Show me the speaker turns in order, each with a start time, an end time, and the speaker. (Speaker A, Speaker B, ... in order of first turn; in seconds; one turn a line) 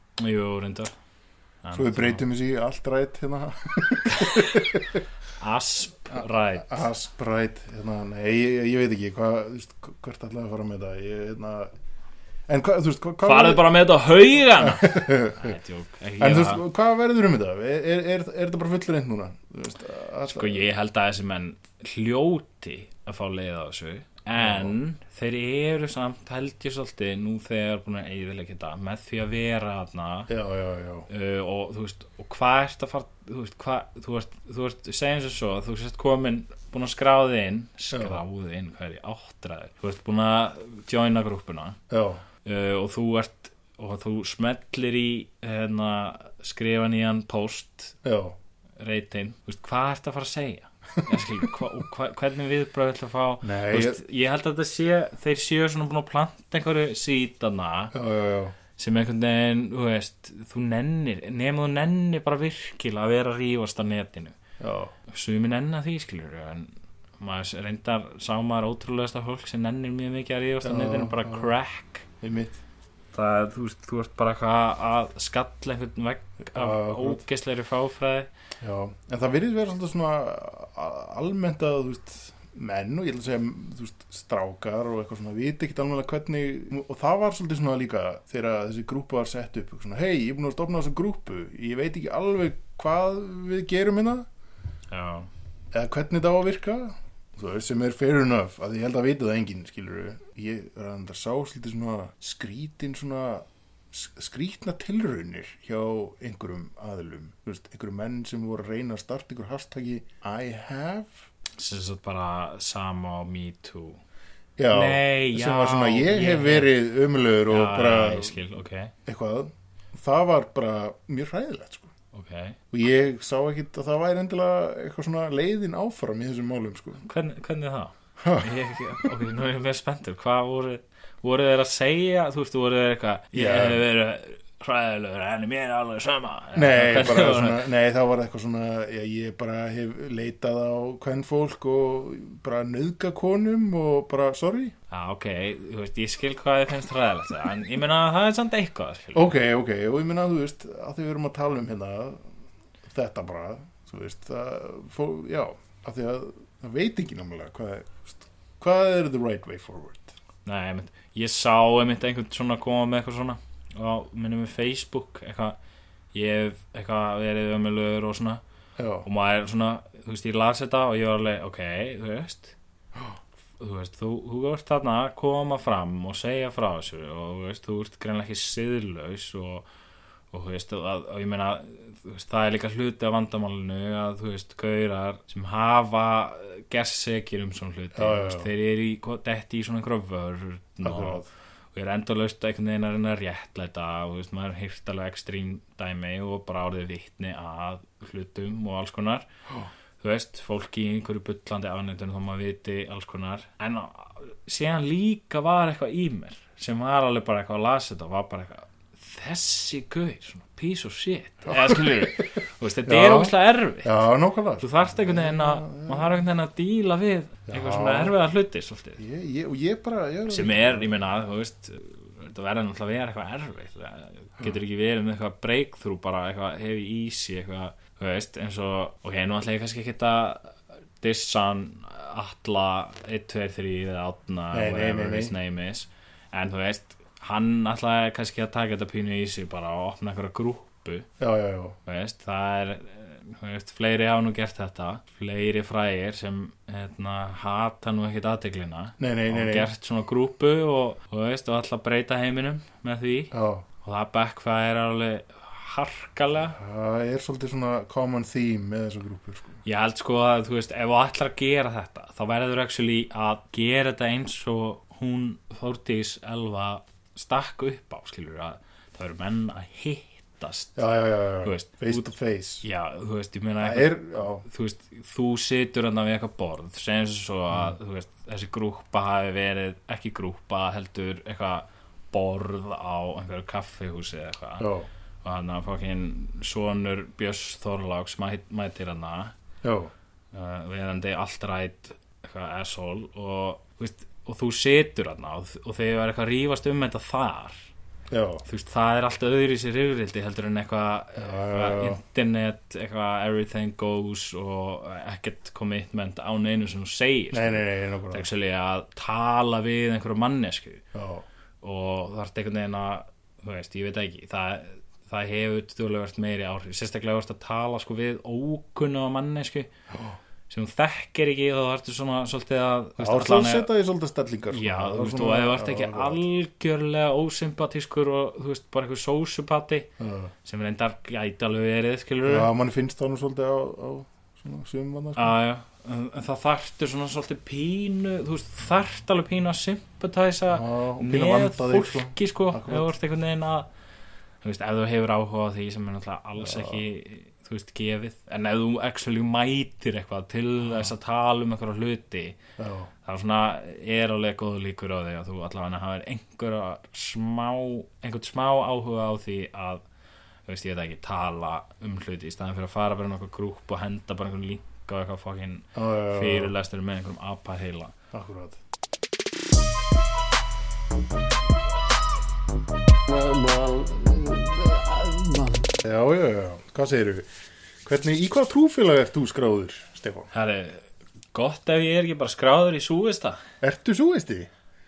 Speaker A: 0.2-0.9
Speaker A: 1.6-2.2
Speaker B: 1.7-5.0
Speaker A: 4.1-4.7
Speaker A: 5.4-6.8
Speaker B: 6.1-11.7
Speaker B: 12.5-13.7
Speaker A: 13.2-16.6
Speaker B: 14.5-15.5
Speaker B: 16.2-20.6
Speaker A: 20.3-30.3
Speaker B: 24.4-24.7
Speaker B: 30.3-31.1
Speaker A: 31.1-41.8
Speaker B: 37.9-38.2
Speaker B: 41.9-42.2
Speaker A: 42.4-48.0
Speaker B: 48.0-48.4
Speaker A: 48.8-57.9
Speaker B: 53.4-54.0
Speaker B: 57.9-58.5
Speaker A: 58.8-64.3
Speaker B: 64.6-64.9
Speaker A: 65.1-72.0
Speaker B: 70.6-71.5
Speaker B: 72.2-72.6
Speaker A: 73.1-78.3
Speaker B: 76.5-77.2
Speaker B: 78.6-94.3
Speaker A: 94.9-95.3
Speaker B: 95.7-111.2
Speaker A: 111.5-114.0
Speaker B: 114.6-118.4
Speaker A: 114.7-116.7
Speaker A: 117.5-118.9
Speaker B: 119.0-121.9
Speaker A: 122.1-122.6
Speaker B: 122.7-127.0
Speaker A: 127.0-137.7
Speaker B: 128.2-129.1
Speaker B: 133.3-133.8
Speaker B: 136.5-144.7
Speaker A: 144.9-149.3
Speaker B: 149.1-152.3
Speaker B: 152.8-160.1
Speaker A: 160.4-165.6
Speaker A: 166.1-168.4
Speaker B: 168.8-169.1
Speaker A: 169.0-172.6
Speaker A: 173.6-179.7
Speaker A: 180.3-199.3
Speaker B: 187.9-188.5
Speaker B: 190.8-191.3
Speaker A: 200.0-214.0
Speaker B: 211.5-212.2
Speaker B: 212.8-216.2
Speaker A: 214.6-219.0
Speaker B: 217.5-218.2
Speaker B: 219.0-220.9
Speaker A: 220.3-241.1
Speaker B: 234.5-235.3
Speaker B: 241.2-241.8
Speaker A: 241.8-256.6
Speaker B: 249.0-249.7
Speaker B: 253.3-253.6
Speaker B: 256.4-259.6
Speaker A: 259.6-270.8
Speaker B: 270.8-272.6
Speaker A: 271.4-272.1
Speaker A: 272.6-284.7
Speaker B: 273.6-274.4
Speaker B: 284.6-284.9
Speaker A: 285.2-289.3
Speaker B: 289.6-289.9
Speaker A: 290.3-297.6
Speaker B: 298.1-298.4
Speaker A: 298.4-310.8
Speaker B: 301.2-302.0
Speaker B: 307.3-308.3
Speaker B: 310.9-311.2
Speaker A: 311.6-319.7
Speaker B: 319.9-320.2
Speaker A: 320.5-323.7
Speaker B: 323.0-326.2
Speaker A: 324.5-329.9
Speaker B: 330.0-330.3
Speaker A: 330.4-332.5
Speaker B: 332.2-335.4
Speaker A: 335.1-343.7
Speaker B: 340.5-342.9
Speaker A: 344.4-352.4
Speaker B: 346.4-346.8
Speaker B: 352.6-352.9
Speaker A: 353.0-359.8
Speaker A: 360.5-367.9
Speaker B: 365.7-366.5
Speaker B: 368.1-368.6
Speaker C: 373.1-375.8
Speaker B: 375.8-377.3
Speaker B: 377.8-380.3
Speaker A: 380.3-383.4
Speaker B: 383.6-384.5